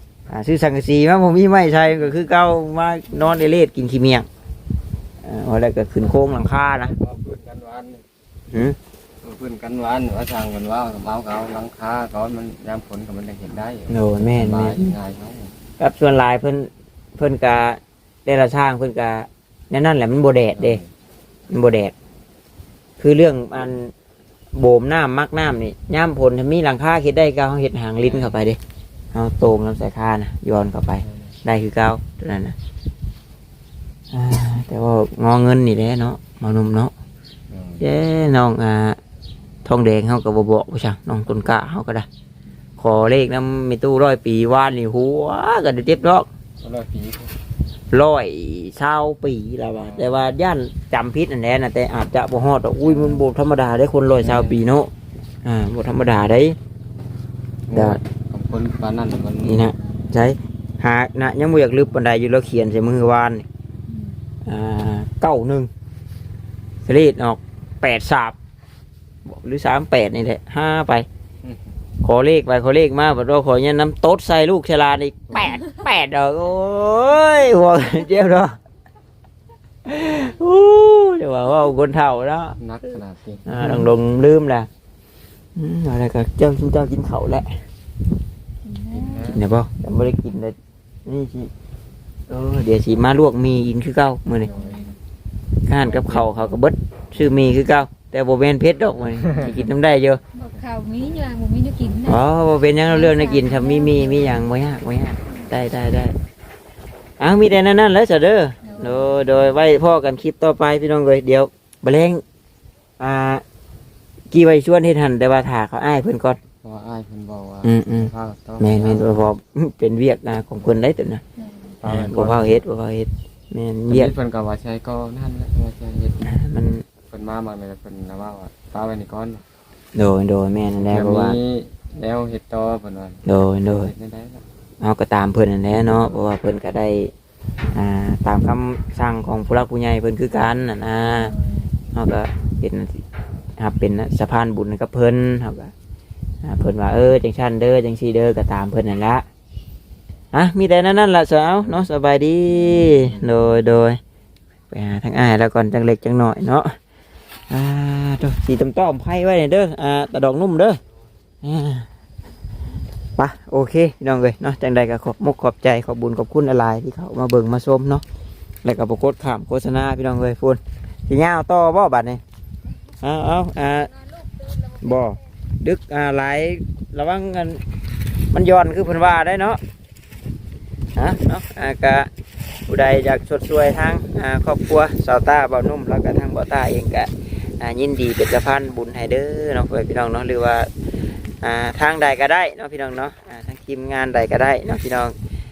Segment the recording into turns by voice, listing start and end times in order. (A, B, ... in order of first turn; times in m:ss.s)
0:00.3-0:04.3 A
0:03.1-0:03.4 B
0:05.2-0:06.9 A
0:06.0-0:08.0 C
0:08.5-0:08.8 A
0:09.2-0:15.5 C
0:13.9-0:15.0 A
0:15.8-0:20.8 A
0:20.6-0:20.9 C
0:21.5-0:21.9 A
0:23.0-0:23.9 A
0:24.6-0:28.6 A
0:28.0-0:28.4 C
0:29.1-0:32.6 A
0:31.0-0:31.3 C
0:34.1-0:36.9 A
0:37.5-0:37.8 C
0:37.8-0:39.0 A
0:39.6-0:42.1 A
0:42.8-0:46.3 A
0:46.6-0:47.4 C
0:47.9-0:54.9 A
0:49.8-0:50.2 C
0:52.9-0:53.2 B
0:54.2-0:54.6 C
0:55.4-0:56.6 A
0:57.7-0:59.7 C
0:57.7-0:58.0 A
0:59.4-1:03.5 A
1:03.9-1:04.2 B
1:04.5-1:05.7 A
1:06.9-1:08.4 A
1:09.3-1:11.1 A
1:11.4-1:11.7 C
1:12.0-1:18.6 A
1:15.3-1:15.6 C
1:19.8-1:22.6 A
1:22.6-1:23.6 C
1:23.5-1:24.7 A
1:25.6-1:27.6 A
1:28.6-1:29.4 B
1:28.9-1:29.4 C
1:29.3-1:31.5 A
1:32.3-1:34.5 A
1:34.4-1:35.0 B
1:34.4-1:35.0 C
1:35.6-1:40.2 A
1:35.8-1:36.5 C
1:39.0-1:39.6 C
1:40.3-1:42.2 B
1:42.1-1:46.2 A
1:42.8-1:44.4 B
1:47.2-1:52.2 A
1:48.6-1:49.1 B
1:53.0-1:53.4 A
1:54.3-1:56.4 A
1:56.6-1:59.2 C
1:57.6-2:01.2 A
2:01.4-2:01.8 B
2:01.8-2:02.7 C
2:01.9-2:04.1 A
2:03.9-2:06.4 C
2:06.3-2:06.8 A
2:07.1-2:09.4 C
2:10.0-2:11.4 A
2:10.8-2:14.4 C
2:13.2-2:13.9 A
2:14.8-2:17.1 A
2:15.8-2:16.2 C
2:17.7-2:21.4 A
2:21.1-2:21.7 B
2:21.9-2:23.0 A
2:23.6-2:25.7 A
2:26.4-2:29.2 A
2:30.3-2:34.0 A
2:31.6-2:31.9 C
2:32.9-2:33.3 C
2:34.7-2:36.8 A
2:37.5-2:40.8 A
2:41.4-2:41.9 A
2:43.2-2:48.0 A
2:48.6-2:52.2 A
2:53.0-2:53.9 A
2:53.6-2:55.2 B
2:54.8-2:57.6 A
2:58.3-2:59.6 A
3:01.0-3:02.1 A
3:02.7-3:10.7 A
3:11.4-3:15.1 A